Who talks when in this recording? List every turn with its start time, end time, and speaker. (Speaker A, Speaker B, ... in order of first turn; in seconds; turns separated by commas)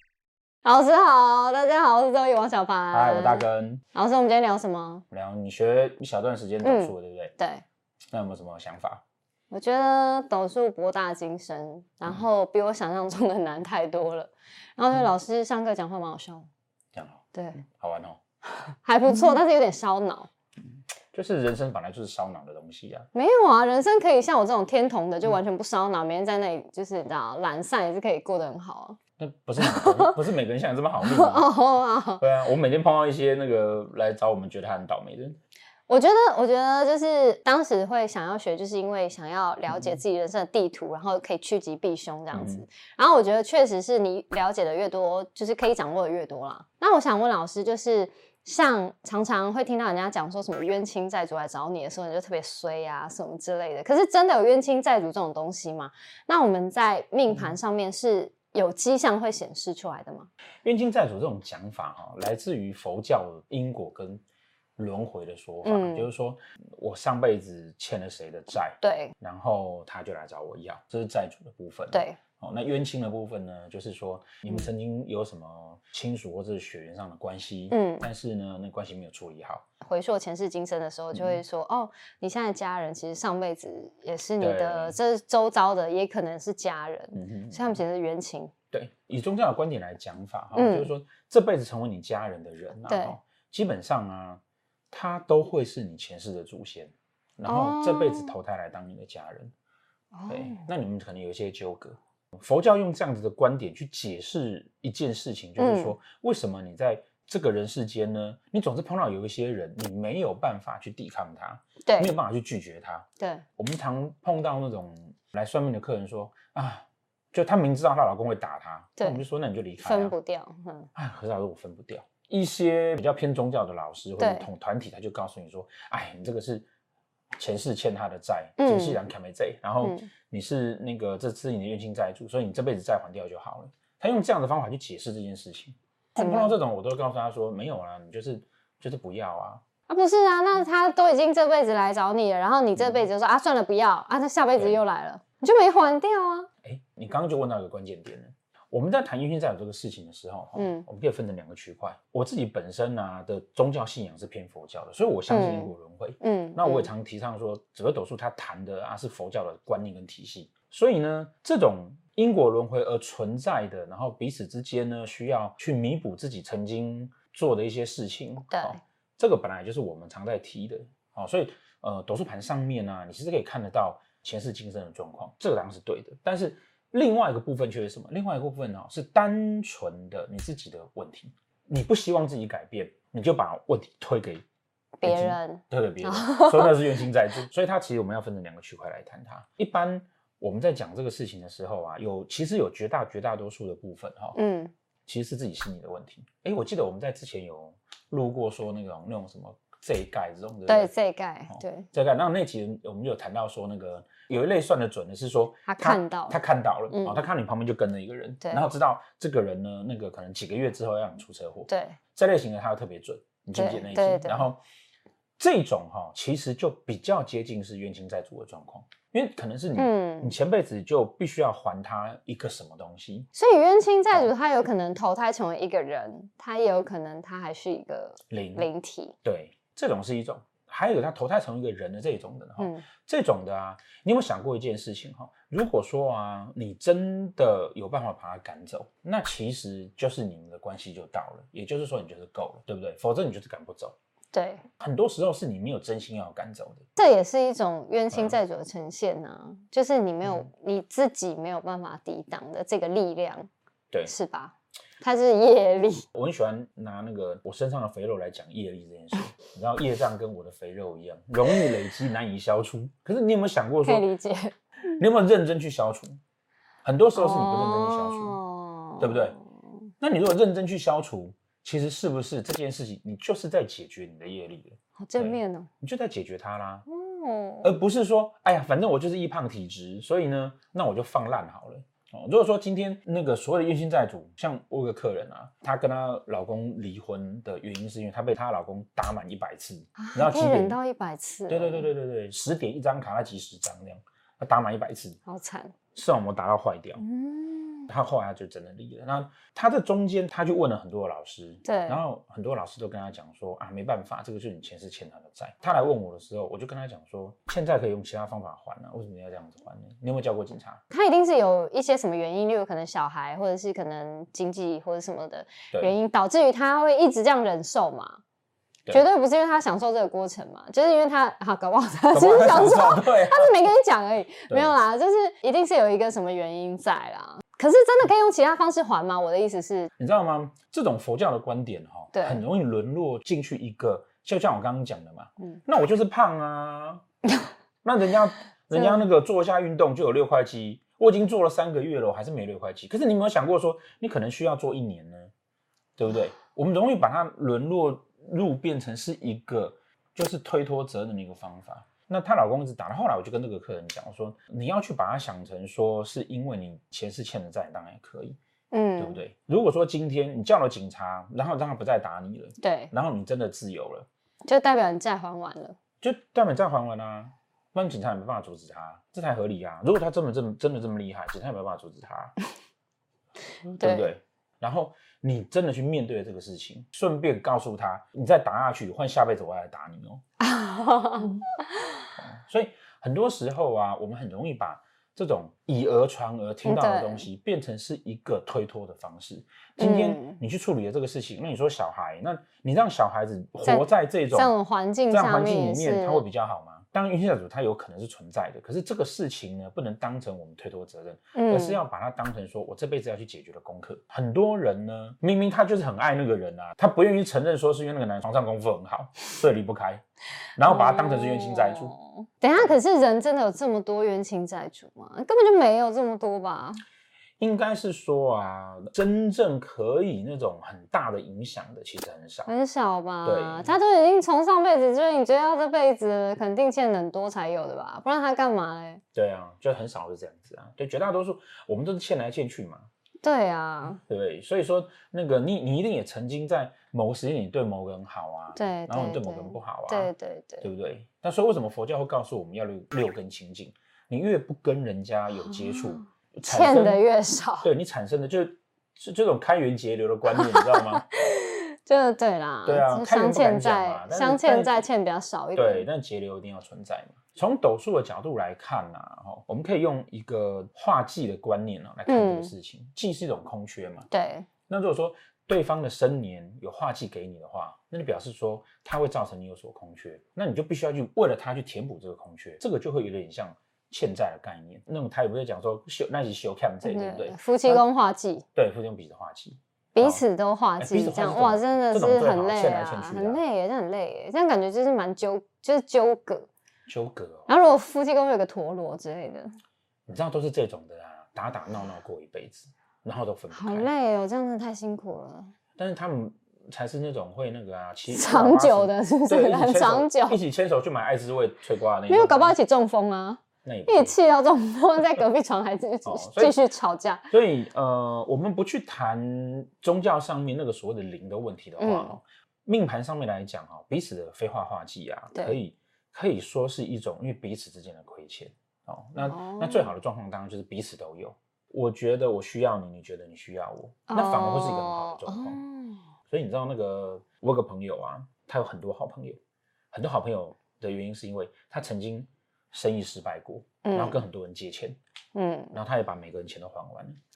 Speaker A: 0.6-5.0, Speaker B: 2.9-3.8, Speaker B: 5.1-7.3, Speaker A: 6.6-7.6, Speaker B: 8.1-9.0, Speaker A: 9.5-16.5, Speaker B: 16.9-18.2, Speaker A: 17.3-17.6, Speaker A: 18.6-20.3, Speaker B: 21.1-23.1, Speaker A: 23.1-29.0, Speaker B: 29.2-31.5, Speaker A: 29.6-30.2, Speaker A: 31.0-32.2, Speaker B: 32.2-35.4, Speaker A: 35.9-60.3, Speaker B: 42.3-42.6, Speaker B: 60.6-64.2, Speaker B: 64.8-79.7, Speaker A: 65.6-66.1, Speaker A: 68.8-69.1, Speaker A: 71.9-72.2, Speaker A: 77.7-78.1, Speaker A: 79.8-88.5, Speaker B: 81.1-81.4, Speaker B: 84.4-85.0, Speaker B: 87.1-87.8, Speaker B: 88.7-99.5, Speaker A: 90.5-90.9, Speaker A: 92.9-93.1, Speaker A: 97.5-98.4, Speaker A: 100.1-100.6, Speaker B: 100.3-120.1, Speaker A: 105.6-105.9, Speaker A: 111.8-112.1, Speaker A: 113.2-113.4, Speaker A: 119.0-119.2, Speaker A: 119.8-120.9, Speaker B: 121.0-126.7, Speaker A: 124.2-124.5, Speaker B: 127.4-139.6, Speaker A: 128.6-129.0, Speaker A: 129.8-130.1, Speaker A: 136.2-136.6, Speaker A: 139.9-146.5, Speaker B: 142.8-143.1, Speaker B: 144.6-144.8, Speaker B: 146.6-184.4, Speaker A: 150.6-150.9, Speaker A: 155.3-156.9, Speaker A: 168.5-168.8, Speaker A: 185.0-187.0, Speaker B: 185.0-194.4, Speaker A: 194.3-194.7, Speaker B: 195.1-200.9, Speaker A: 200.7-201.9, Speaker B: 201.5-214.6, Speaker A: 205.7-206.4, Speaker A: 206.9-207.2, Speaker A: 211.7-212.0, Speaker A: 213.6-214.5, Speaker B: 215.4-223.3, Speaker A: 219.8-220.3, Speaker A: 223.3-229.2, Speaker B: 228.3-228.7, Speaker B: 229.2-243.9, Speaker A: 232.6-232.8, Speaker A: 244.3-244.6, Speaker B: 244.8-246.8, Speaker A: 246.9-253.5, Speaker B: 248.1-248.4, Speaker A: 254.1-256.1, Speaker B: 256.1-264.1, Speaker A: 263.9-264.6, Speaker B: 265.0-266.2, Speaker B: 266.8-268.4, Speaker A: 267.1-269.4, Speaker B: 269.0-269.4, Speaker B: 270.0-276.9, Speaker A: 275.0-275.7, Speaker A: 276.9-277.7, Speaker B: 277.6-290.8, Speaker A: 290.0-291.9, Speaker B: 291.5-295.2, Speaker A: 295.2-295.8, Speaker B: 295.9-297.0, Speaker A: 297.0-297.9, Speaker B: 297.9-310.8, Speaker A: 301.6-302.0, Speaker A: 310.9-318.2, Speaker A: 318.9-329.9, Speaker B: 322.1-323.7, Speaker B: 330.0-337.0, Speaker A: 332.1-332.4, Speaker B: 337.8-345.3, Speaker A: 338.7-339.0, Speaker B: 346.0-358.4, Speaker A: 358.7-359.2, Speaker B: 359.0-364.1, Speaker A: 362.6-362.9, Speaker A: 364.4-365.8, Speaker B: 366.0-372.4, Speaker B: 373.7-380.2, Speaker A: 373.8-374.1, Speaker A: 380.4-382.0, Speaker B: 382.2-394.5, Speaker A: 386.6-387.3, Speaker A: 389.8-390.4, Speaker A: 393.7-396.2, Speaker B: 395.1-410.1, Speaker A: 401.4-401.8, Speaker B: 410.6-411.9, Speaker A: 410.7-416.8, Speaker B: 417.4-422.5, Speaker A: 422.4-429.0, Speaker B: 423.2-423.8, Speaker B: 429.1-432.9, Speaker A: 433.2-434.0, Speaker B: 433.9-440.1, Speaker A: 438.6-440.7, Speaker B: 440.6-447.0, Speaker A: 445.4-447.7, Speaker B: 447.6-451.1, Speaker A: 450.3-455.9, Speaker B: 452.6-454.8, Speaker B: 455.6-464.1, Speaker A: 462.1-462.5, Speaker A: 464.1-464.5, Speaker B: 464.7-477.8, Speaker A: 476.8-478.4, Speaker B: 478.6-480.2, Speaker A: 479.9-486.5, Speaker B: 480.8-483.4, Speaker B: 486.9-487.5, Speaker A: 487.5-489.5, Speaker B: 490.1-493.9, Speaker A: 493.5-495.5, Speaker B: 495.8-502.6, Speaker A: 498.1-500.4, Speaker A: 502.1-507.3, Speaker B: 503.6-504.1, Speaker B: 506.0-506.5, Speaker B: 507.3-525.6, Speaker A: 511.8-512.2, Speaker A: 519.2-519.9, Speaker A: 524.1-526.0, Speaker B: 526.3-529.4, Speaker B: 529.9-535.0, Speaker A: 533.8-534.2, Speaker A: 535.3-535.8, Speaker B: 535.7-537.2